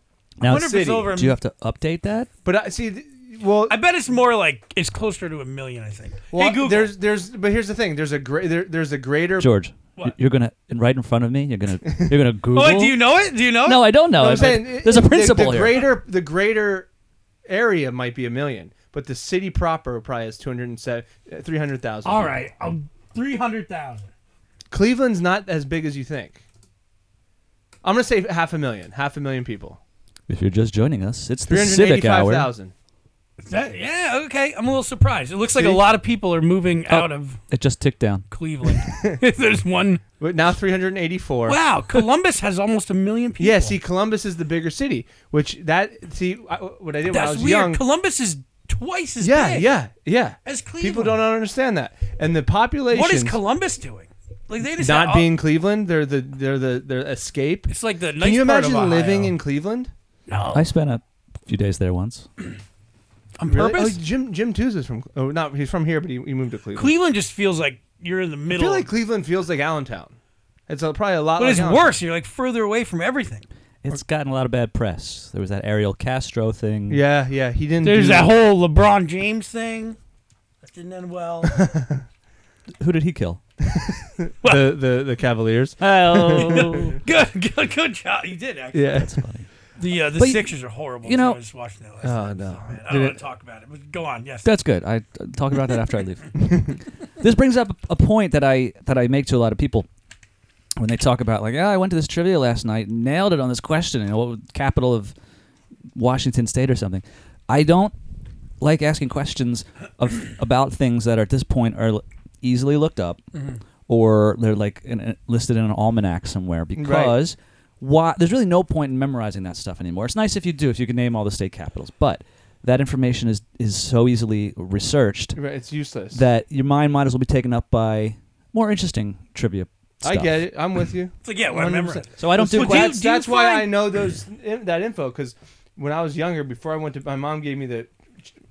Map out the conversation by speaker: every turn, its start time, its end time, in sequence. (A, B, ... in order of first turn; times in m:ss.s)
0:00.4-0:02.3 A
0:00.4-0:01.4 B
0:00.5-0:01.1 C
0:02.4-0:03.8 C
0:03.7-0:06.9 B
0:06.3-0:09.5 C
0:09.4-0:13.0 A
0:12.5-0:13.9 B
0:13.6-0:15.8 A
0:14.1-0:16.9 C
0:17.4-0:22.3 C
0:22.0-0:24.1 B
0:24.7-0:26.4 C
0:27.8-0:29.8 C
0:30.3-0:32.5 A
0:31.5-0:32.7 C
0:33.4-0:37.4 B
0:35.5-0:35.8 C
0:36.9-0:38.2 A
0:38.3-0:40.0 B
0:38.8-0:39.2 C
0:40.2-0:41.6 C
0:41.4-0:43.8 B
0:43.4-0:47.8 C
0:47.1-0:49.7 B
0:49.2-0:53.4 C
0:50.4-0:51.2 B
0:52.9-0:55.3 B
0:54.8-0:59.9 C
0:57.7-0:59.4 B
1:00.3-1:00.6 B
1:00.5-1:02.3 A
1:03.4-1:04.0 B
1:03.4-1:06.9 C
1:06.7-1:08.9 B
1:08.5-1:10.1 C
1:10.7-1:12.0 C
1:11.4-1:13.4 B
1:13.8-1:17.0 A
1:16.9-1:18.3 C
1:17.8-1:20.0 B
1:20.6-1:21.6 B
1:21.4-1:22.0 C
1:22.8-1:23.4 A
1:23.6-1:26.9 C
1:24.4-1:24.7 B
1:25.8-1:27.0 A
1:26.4-1:29.0 B
1:28.7-1:29.1 C
1:28.9-1:29.5 A
1:29.8-1:34.5 B
1:30.1-1:31.4 A
1:32.0-1:33.2 C
1:34.4-1:39.9 A
1:40.8-1:45.1 A
1:45.9-1:47.9 A
1:48.6-1:53.2 A
1:53.3-1:53.6 B
1:53.9-2:05.4 A
1:56.7-1:57.2 C
2:05.3-2:06.2 C
2:06.1-2:10.4 A
2:10.0-2:18.3 C
2:11.2-2:13.8 B
2:12.2-2:13.0 A